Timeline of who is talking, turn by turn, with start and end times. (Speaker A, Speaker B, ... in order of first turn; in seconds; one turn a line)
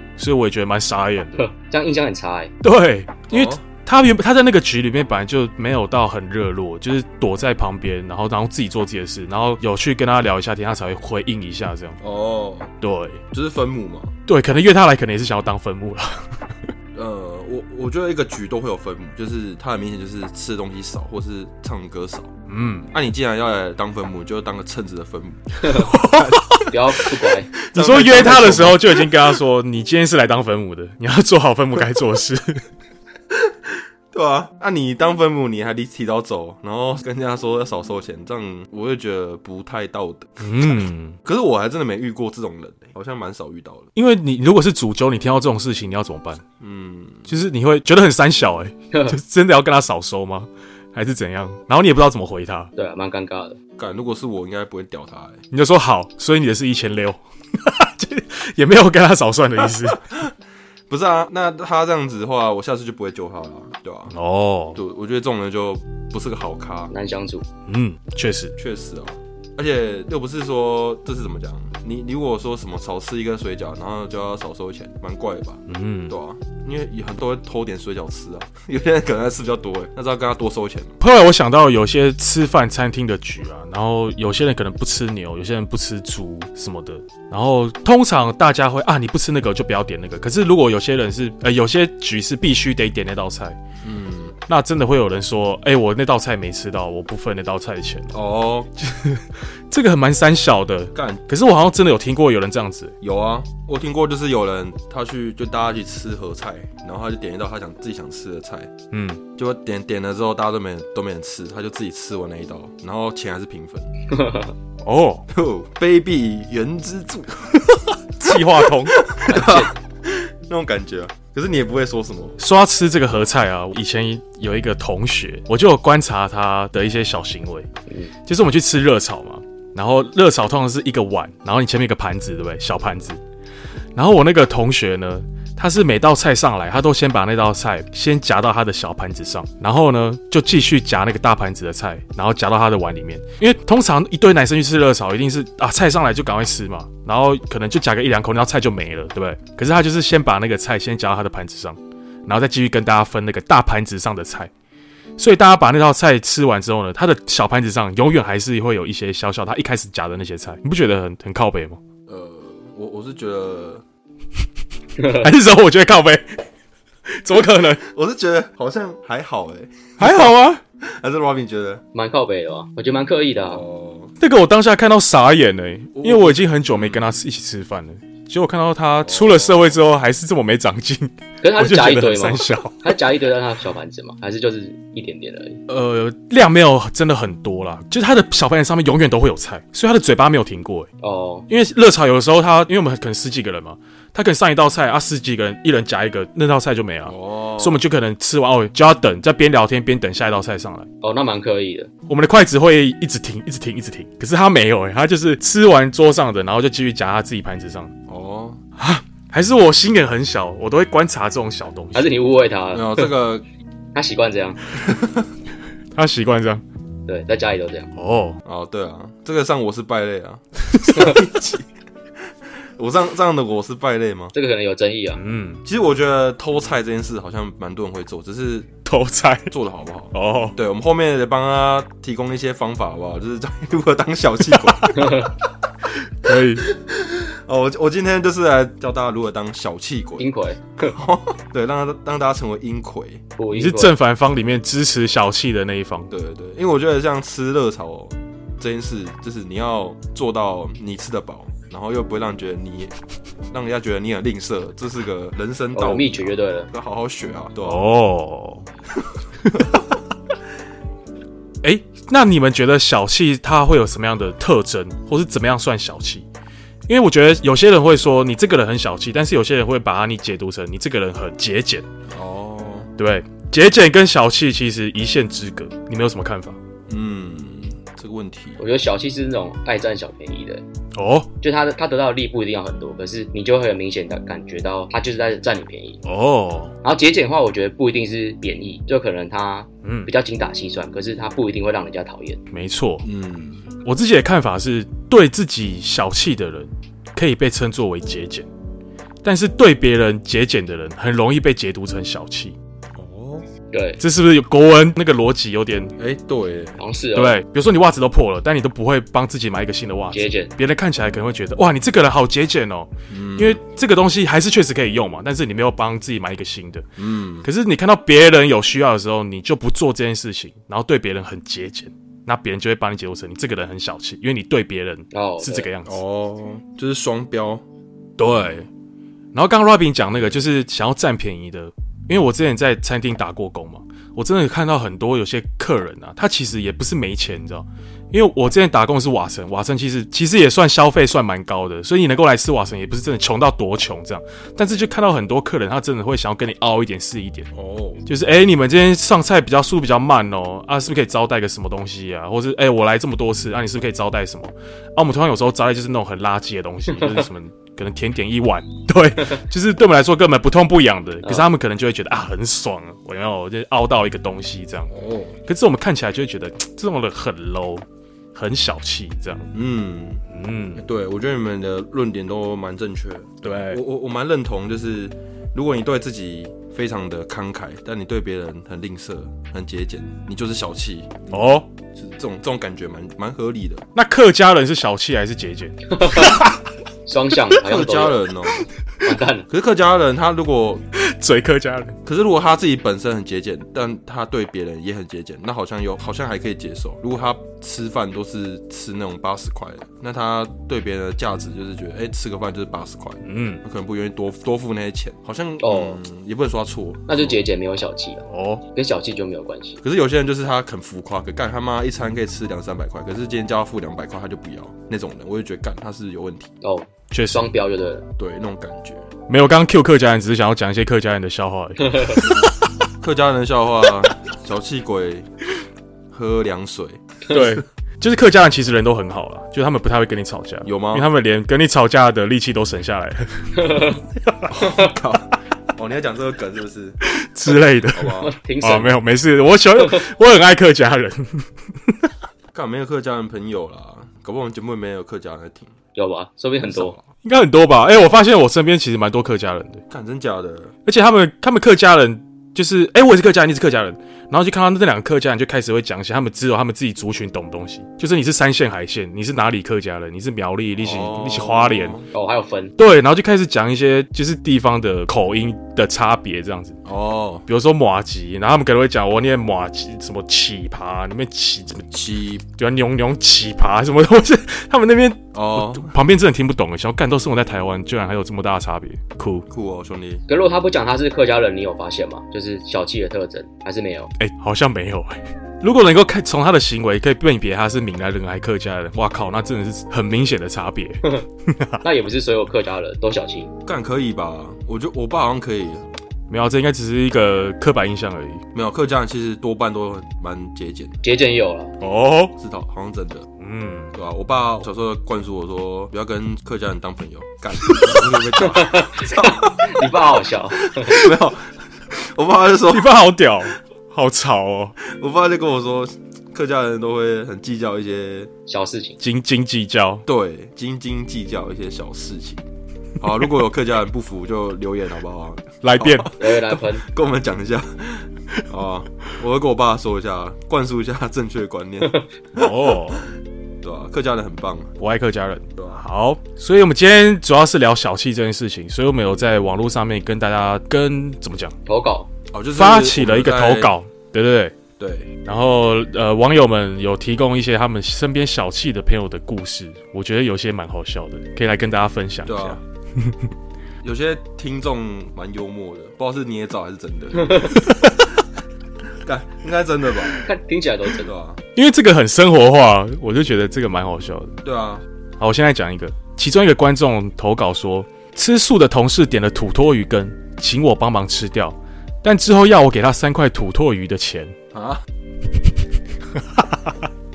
Speaker A: 0.2-1.4
Speaker B: 1.4-2.5
Speaker A: 2.6-12.0
Speaker C: 3.3-3.6
Speaker C: 12.0-12.7
Speaker A: 12.8-13.2
Speaker C: 13.3-14.1
Speaker A: 14.3-16.3
Speaker C: 16.9-22.3
Speaker A: 22.5-22.9
Speaker C: 22.9-26.5
Speaker B: 25.6-25.9
Speaker A: 25.7-26.7
Speaker B: 26.6-28.6
Speaker C: 27.6-29.4
Speaker A: 27.7-32.6
Speaker C: 33.3-43.9
Speaker A: 40.4-41.2
Speaker A: 44.0-46.4
Speaker C: 46.6-47.3
Speaker A: 47.3-52.7
Speaker B: 48.9-49.2
Speaker B: 52.8-53.6
Speaker C: 53.8-55.4
Speaker A: 55.5-60.1
Speaker C: 60.0-60.3
Speaker C: 60.9-64.1
Speaker A: 64.1-64.8
Speaker C: 64.7-66.9
Speaker B: 66.9-67.4
Speaker A: 67.7-68.5
Speaker C: 68.6-81.0
Speaker A: 75.7-76.1
Speaker A: 81.0-93.6
Speaker C: 93.8-94.4
Speaker A: 94.5-98.1
Speaker C: 98.1-98.7
Speaker A: 98.8-103.0
Speaker C: 100.9-101.2
Speaker C: 103.0-108.7
Speaker A: 108.9-109.2
Speaker C: 109.4-113.9
Speaker B: 114.1-114.5
Speaker A: 114.8-115.2
Speaker C: 115.3-122.4
Speaker A: 118.2-119.0
Speaker B: 119.2-119.7
Speaker A: 122.4-127.7
Speaker A: 128.2-133.2
Speaker A: 133.9-154.5
Speaker A: 155.2-161.8
Speaker C: 162.1-163.8
Speaker B: 165.0-165.2
Speaker A: 165.1-166.4
Speaker A: 167.1-167.8
Speaker C: 167.8-171.8
Speaker A: 170.0-170.6
Speaker B: 171.9-173.6
Speaker C: 173.4-174.1
Speaker A: 174.2-182.9
Speaker C: 175.9-177.1
Speaker C: 179.0-179.8
Speaker B: 181.4-185.6
Speaker A: 185.7-190.9
Speaker B: 191.0-191.5
Speaker A: 191.5-200.9
Speaker C: 197.1-197.8
Speaker B: 201.0-201.9
Speaker A: 202.1-207.9
Speaker C: 208.1-208.6
Speaker A: 208.8-212.1
Speaker B: 211.9-213.1
Speaker C: 212.7-213.4
Speaker B: 213.9-214.6
Speaker C: 214.8-215.3
Speaker A: 215.9-216.6
Speaker B: 217.1-217.9
Speaker A: 217.9-218.4
Speaker C: 218.4-221.7
Speaker A: 220.7-221.2
Speaker C: 222.8-224.3
Speaker B: 224.3-225.2
Speaker A: 225.2-225.6
Speaker C: 225.6-228.7
Speaker A: 228.8-229.5
Speaker C: 229.5-235.3
Speaker A: 230.1-230.6
Speaker A: 234.6-234.9
Speaker B: 234.9-235.3
Speaker A: 236.0-236.7
Speaker C: 236.3-240.3
Speaker B: 240.2-241.0
Speaker C: 240.8-243.2
Speaker B: 243.4-243.9
Speaker A: 243.5-246.1
Speaker C: 246.1-252.9
Speaker C: 253.5-257.9
Speaker B: 255.7-256.7
Speaker A: 257.6-258.6
Speaker A: 261.6-266.3
Speaker A: 266.9-271.9
Speaker C: 272.1-272.9
Speaker A: 273.0-276.6
Speaker C: 276.9-278.6
Speaker B: 278.6-280.6
Speaker A: 280.9-281.3
Speaker B: 281.4-286.0
Speaker A: 286.0-286.7
Speaker B: 286.8-292.4
Speaker A: 289.8-290.1
Speaker A: 292.5-293.1
Speaker C: 293.0-293.7
Speaker A: 293.8-298.5
Speaker A: 299.2-302.6
Speaker C: 302.9-303.4
Speaker B: 303.7-304.0
Speaker A: 304.0-305.9
Speaker C: 306.0-306.8
Speaker B: 306.8-307.4
Speaker A: 307.1-316.8
Speaker B: 310.1-310.5
Speaker C: 313.1-313.6
Speaker C: 317.0-317.5
Speaker A: 317.4-326.0
Speaker B: 325.1-325.7
Speaker C: 325.8-327.6
Speaker A: 328.2-328.7
Speaker A: 329.3-347.5
Speaker C: 347.5-348.0
Speaker A: 348.1-364.9
Speaker C: 364.9-365.4
Speaker A: 365.5-369.5
Speaker C: 369.5-370.2
Speaker A: 370.3-370.8
Speaker C: 370.8-383.9
Speaker A: 373.4-373.8
Speaker A: 381.3-381.6
Speaker A: 383.9-386.5
Speaker B: 385.9-386.4
Speaker B: 387.1-388.2
Speaker C: 387.6-388.7
Speaker B: 389.0-389.5
Speaker C: 389.5-390.8
Speaker A: 390.9-392.0
Speaker C: 392.1-407.4
Speaker A: 403.2-403.6
Speaker B: 405.6-406.0
Speaker B: 407.1-409.8
Speaker A: 408.3-408.6
Speaker C: 409.8-416.5
Speaker B: 416.6-418.1
Speaker A: 417.1-417.5
Speaker C: 418.2-419.1
Speaker A: 419.3-422.5
Speaker C: 423.0-425.3
Speaker C: 426.1-427.6
Speaker A: 427.3-434.9
Speaker C: 430.6-431.1
Speaker B: 433.6-434.0
Speaker C: 434.5-437.0
Speaker A: 437.0-441.5
Speaker C: 437.9-438.3
Speaker B: 438.2-438.9
Speaker C: 442.5-445.7
Speaker B: 445.9-446.9
Speaker C: 446.6-447.0
Speaker A: 447.2-449.8
Speaker C: 449.9-450.7
Speaker A: 450.9-462.0
Speaker C: 460.8-462.1
Speaker B: 462.1-462.7
Speaker A: 462.8-466.8
Speaker C: 466.8-467.4
Speaker A: 467.5-471.9
Speaker C: 471.9-472.4
Speaker A: 472.6-479.5
Speaker C: 475.3-475.9
Speaker C: 479.5-480.2
Speaker B: 480.3-484.1
Speaker A: 484.2-491.8
Speaker B: 491.8-493.5
Speaker C: 493.6-495.9
Speaker A: 496.3-498.4
Speaker C: 498.5-501.0
Speaker B: 501.0-501.7
Speaker A: 501.8-502.3
Speaker C: 502.4-503.3
Speaker A: 503.4-503.9
Speaker C: 503.9-509.9
Speaker B: 508.4-511.0
Speaker C: 510.5-513.0
Speaker A: 512.7-514.8
Speaker C: 514.8-518.3
Speaker B: 518.5-519.0
Speaker A: 519.0-520.0
Speaker C: 520.0-522.4
Speaker C: 523.0-532.0
Speaker A: 525.6-526.1
Speaker B: 526.1-526.8
Speaker A: 532.3-533.0
Speaker C: 533.6-534.8
Speaker A: 534.8-541.5
Speaker C: 535.6-535.8
Speaker B: 541.6-542.1
Speaker C: 542.3-543.7
Speaker A: 542.5-544.5
Speaker C: 544.8-545.1
Speaker A: 545.2-553.3
Speaker C: 552.2-552.6
Speaker C: 553.8-557.7
Speaker A: 557.5-557.9
Speaker C: 559.0-560.3
Speaker B: 560.2-561.1
Speaker C: 560.9-561.4
Speaker A: 561.5-564.4
Speaker C: 564.4-564.8
Speaker A: 565.2-574.3
Speaker C: 574.5-574.8
Speaker A: 576.1-576.8